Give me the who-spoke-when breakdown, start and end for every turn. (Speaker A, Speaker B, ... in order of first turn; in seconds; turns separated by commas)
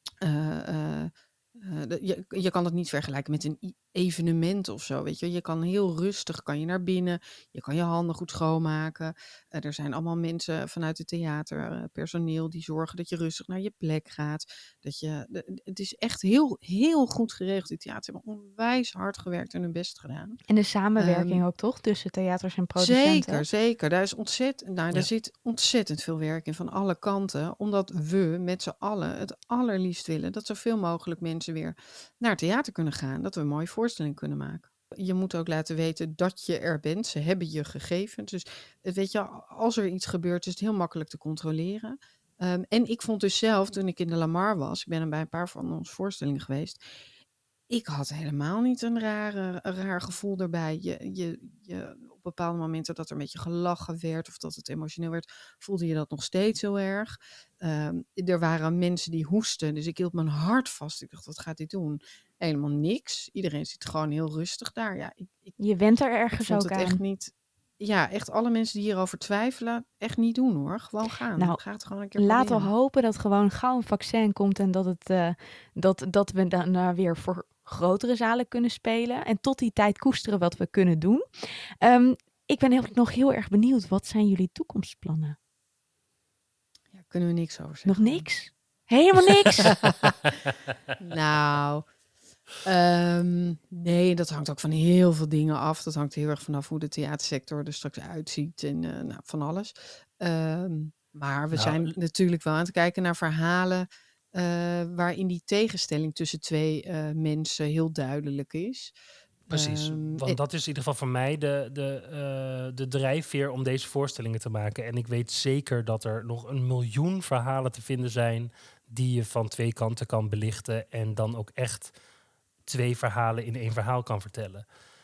Speaker A: 0.2-20.4, Speaker B: 20.5-23.5, Speaker A: 21.0-21.4, Speaker A: 22.8-46.8, Speaker A: 47.7-65.6, Speaker B: 65.6-67.0, Speaker A: 66.3-72.7, Speaker B: 72.2-81.2, Speaker B: 81.8-85.4, Speaker A: 86.9-88.3, Speaker B: 87.9-89.7, Speaker A: 89.6-90.2, Speaker A: 91.0-91.9, Speaker A: 92.6-109.0, Speaker C: 101.5-101.9, Speaker C: 109.5-121.9, Speaker A: 109.5-110.4, Speaker C: 122.7-124.7